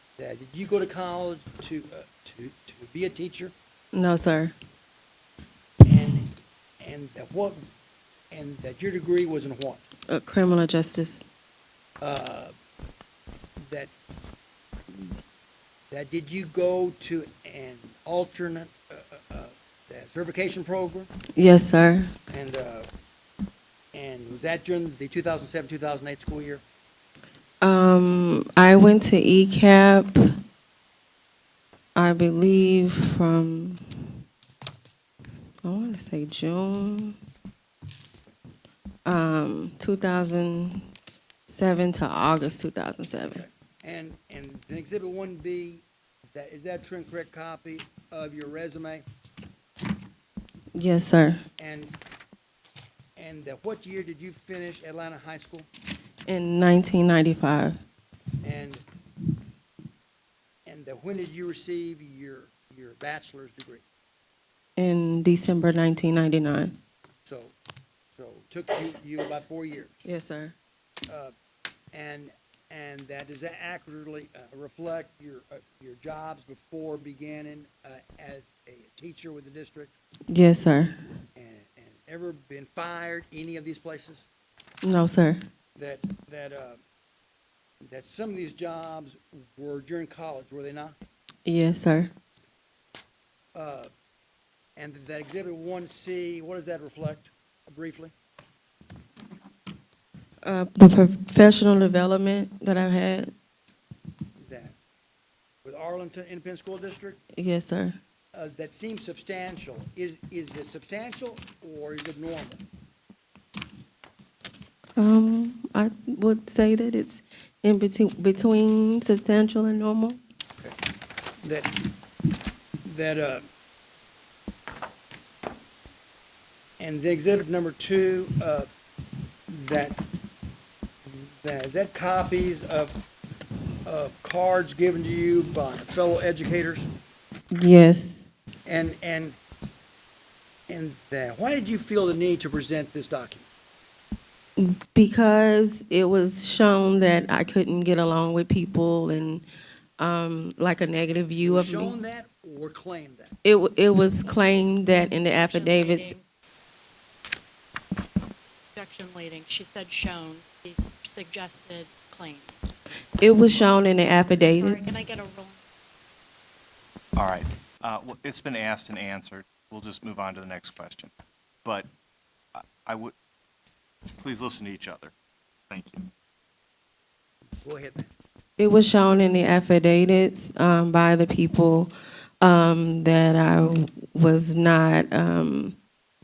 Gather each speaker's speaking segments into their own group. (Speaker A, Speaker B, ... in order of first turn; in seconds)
Speaker A: 0.2-3.5, 5.8-7.7, 8.3-9.8, 12.0-12.5, 13.6-13.9, 15.9-21.1, 22.3-22.9, 23.9-26.6, 43.3-49.0, 51.6-52.0, 53.2-55.7, 58.4-58.8, 60.6-63.8, 67.2-67.5, 68.1-70.1, 71.1-71.3, 71.9-79.9, 81.3-84.2, 85.8-86.8, 87.8-91.0, 93.5-93.9, 94.8-98.1, 104.4-104.8, 105.6-107.2, 108.3-112.6, 121.4-121.8, 122.8-123.5, 126.8-128.7, 129.5-130.0, 131.1-133.0, 133.8-136.9, 138.7-139.4, 140.7-143.4, 151.4-153.3, 177.6-178.1
Speaker B: 3.9-4.5, 10.1-11.2, 21.4-22.1, 27.6-30.2, 31.9-34.2, 35.6-37.1, 39.0-40.9, 41.5-43.4, 50.7-51.4, 56.2-57.8, 64.8-66.8, 70.0-70.5, 80.3-80.9, 84.8-85.4, 91.5-92.1, 100.4-103.3, 107.3-108.0, 115.0-120.2, 137.5-138.2, 144.6-149.4, 150.0-151.9, 153.4-156.1, 163.2-165.0, 178.6-185.8
Speaker C: 155.3-156.2, 158.7-162.6, 164.4-165.6
Speaker D: 167.2-171.1, 171.6-171.9, 172.5-173.1, 174.2-175.1, 175.7-176.1